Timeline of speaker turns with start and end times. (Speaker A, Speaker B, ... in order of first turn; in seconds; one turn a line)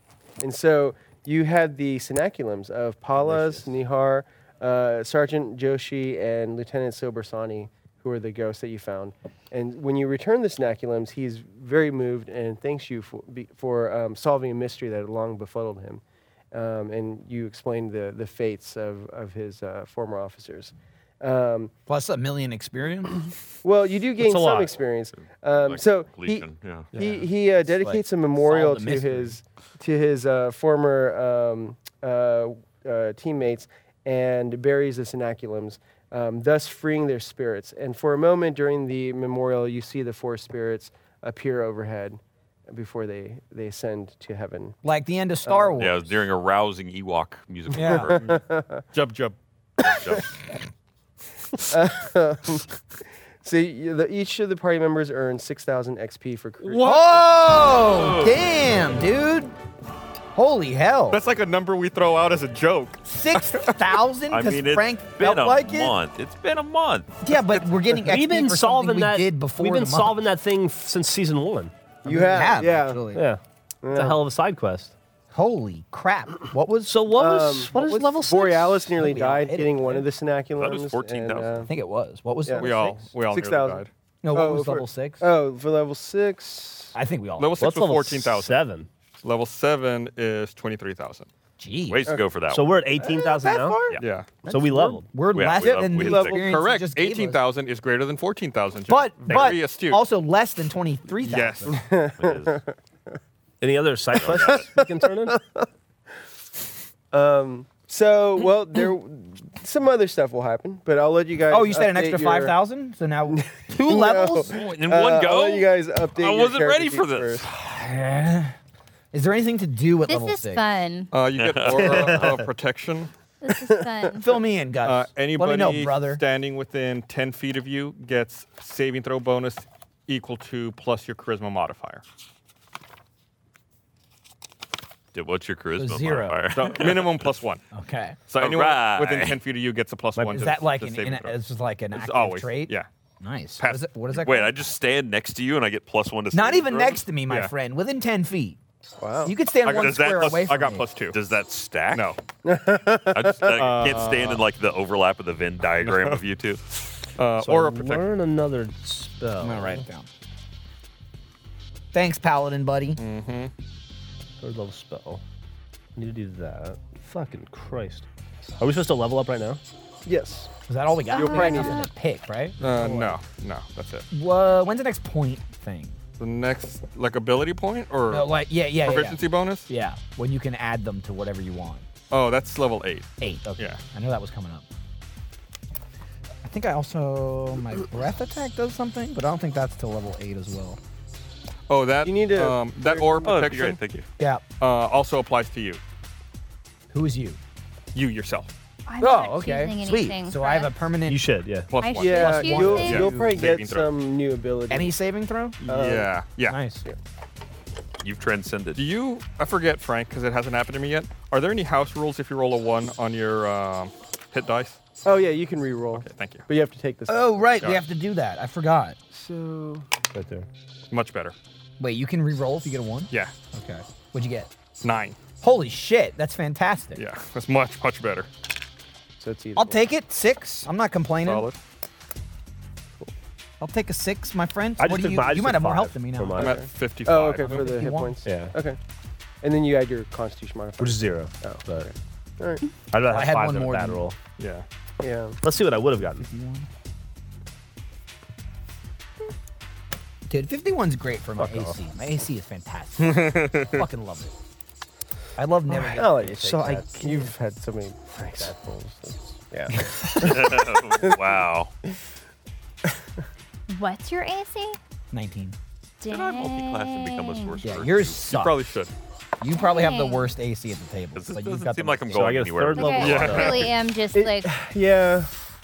Speaker A: 0.4-21.7
Speaker B: 21.9-23.2
Speaker A: 23.6-44.8
Speaker C: 24.2-24.7
Speaker D: 25.6-26.9
Speaker E: 26.9-27.2
Speaker B: 27.7-29.4
Speaker B: 44.8-46.1
Speaker A: 45.5-45.8
Speaker D: 45.8-48.4
Speaker B: 47.7-48.1
Speaker A: 47.8-48.8
Speaker E: 48.9-49.4
Speaker D: 49.8-50.3
Speaker A: 49.9-50.2
Speaker A: 51.7-52.7
Speaker A: 53.4-57.0
Speaker E: 56.6-57.2
Speaker B: 56.8-59.5
Speaker D: 57.8-58.4
Speaker B: 60.4-61.2
Speaker E: 61.1-63.9
Speaker B: 63.1-65.9
Speaker D: 64.3-67.1
Speaker B: 67.2-70.2
Speaker C: 68.0-71.7
Speaker A: 72.0-73.1
Speaker B: 72.1-73.2
Speaker C: 73.1-75.0
Speaker A: 73.8-74.2
Speaker B: 75.3-77.0
Speaker C: 76.9-78.7
Speaker A: 77.1-81.7
Speaker B: 77.7-80.1
Speaker D: 80.6-81.7
Speaker B: 81.7-83.0
Speaker A: 82.5-87.0
Speaker E: 82.6-83.9
Speaker B: 84.2-85.2
Speaker B: 86.9-87.7
Speaker E: 87.4-88.6
Speaker C: 87.6-88.9
Speaker E: 89.2-91.3
Speaker B: 91.6-92.1
Speaker D: 91.9-92.8
Speaker C: 92.5-93.8
Speaker A: 93.0-94.0
Speaker E: 94.0-94.4
Speaker C: 94.4-95.1
Speaker B: 94.5-97.4
Speaker D: 95.3-96.5
Speaker A: 95.6-96.5
Speaker E: 96.3-100.0
Speaker B: 98.9-101.8
Speaker C: 99.3-99.6
Speaker E: 101.2-101.8
Speaker A: 101.7-102.7
Speaker D: 102.2-102.6
Speaker C: 103.6-105.4
Speaker D: 104.1-104.7
Speaker A: 104.5-105.7
Speaker A: 107.1-112.6
Speaker B: 111.5-114.5
Speaker A: 113.3-117.5
Speaker D: 114.5-117.4
Speaker B: 117.5-118.5
Speaker B: 119.1-120.6
Speaker F: 120.1-121.1
Speaker E: 121.1-123.1
Speaker D: 121.4-122.4
Speaker C: 121.8-122.3
Speaker F: 123.4-124.3
Speaker B: 124.2-126.2
Speaker E: 124.8-132.0
Speaker D: 135.1-137.3
Speaker B: 135.8-136.4
Speaker E: 136.5-137.6
Speaker B: 137.7-138.2
Speaker E: 138.3-141.4
Speaker D: 138.4-139.4
Speaker B: 140.2-144.8
Speaker E: 141.9-142.9
Speaker E: 143.6-143.9
Speaker D: 144.1-147.0
Speaker B: 146.3-148.6
Speaker A: 149.0-149.3
Speaker B: 149.2-150.9
Speaker E: 149.6-151.2
Speaker D: 151.1-152.1
Speaker E: 151.9-152.2
Speaker A: 152.4-153.6
Speaker D: 153.1-156.6
Speaker E: 153.5-154.4
Speaker E: 155.8-156.2
Speaker E: 157.1-158.1
Speaker C: 157.4-159.8
Speaker B: 159.4-160.1
Speaker B: 161.9-163.0
Speaker E: 163.0-163.5
Speaker C: 164.4-165.2
Speaker C: 166.0-168.1
Speaker C: 168.6-169.6
Speaker A: 170.1-170.5
Speaker B: 170.7-172.6
Speaker F: 171.1-171.9
Speaker A: 171.1-171.8
Speaker E: 172.6-174.1
Speaker A: 172.6-173.1
Speaker B: 174.1-176.0
Speaker E: 176.2-179.7
Speaker B: 178.1-181.8
Speaker E: 182.1-183.8
Speaker B: 183.2-184.7
Speaker B: 186.4-190.8
Speaker E: 191.7-193.8
Speaker A: 192.0-193.4
Speaker D: 193.2-194.1
Speaker E: 194.6-195.8
Speaker B: 196.9-197.4
Speaker E: 197.9-198.5
Speaker F: 198.9-200.8
Speaker B: 199.0-201.3
Speaker C: 201.1-201.7
Speaker E: 201.7-203.9
Speaker F: 201.8-203.1
Speaker A: 202.0-204.9
Speaker B: 202.2-203.0
Speaker B: 204.7-205.6
Speaker E: 205.6-206.6
Speaker A: 205.7-206.1
Speaker B: 206.4-206.8
Speaker D: 208.0-208.8
Speaker E: 208.8-214.8
Speaker A: 215.0-217.5
Speaker E: 215.9-216.5
Speaker B: 217.1-219.0
Speaker A: 219.1-219.9
Speaker C: 220.1-220.5
Speaker E: 220.9-221.3
Speaker B: 221.8-224.5
Speaker E: 224.8-225.2
Speaker B: 225.4-227.0
Speaker E: 227.0-228.3
Speaker A: 229.2-229.8
Speaker B: 229.6-231.5
Speaker E: 231.2-231.6
Speaker B: 233.6-236.5
Speaker C: 234.8-236.6
Speaker E: 236.4-237.7
Speaker A: 236.4-238.8
Speaker B: 237.4-238.2
Speaker C: 238.2-238.5
Speaker A: 239.4-242.6
Speaker C: 240.8-241.9
Speaker C: 242.9-244.2
Speaker B: 243.1-244.1
Speaker E: 244.4-244.7
Speaker A: 245.0-245.4
Speaker C: 245.4-246.3
Speaker B: 246.2-246.7
Speaker B: 250.3-254.3
Speaker C: 251.4-251.8
Speaker E: 253.0-253.8
Speaker B: 255.4-256.4
Speaker A: 255.7-261.3
Speaker C: 256.2-257.2
Speaker D: 260.2-261.7
Speaker F: 263.7-264.8
Speaker B: 265.1-265.6
Speaker F: 266.0-267.6
Speaker D: 266.1-268.2
Speaker B: 267.6-268.7
Speaker E: 268.3-268.9
Speaker B: 269.4-272.3
Speaker F: 269.5-270.3
Speaker D: 271.1-273.7
Speaker C: 272.1-273.6
Speaker F: 272.7-274.6
Speaker E: 273.0-273.7
Speaker A: 274.1-275.3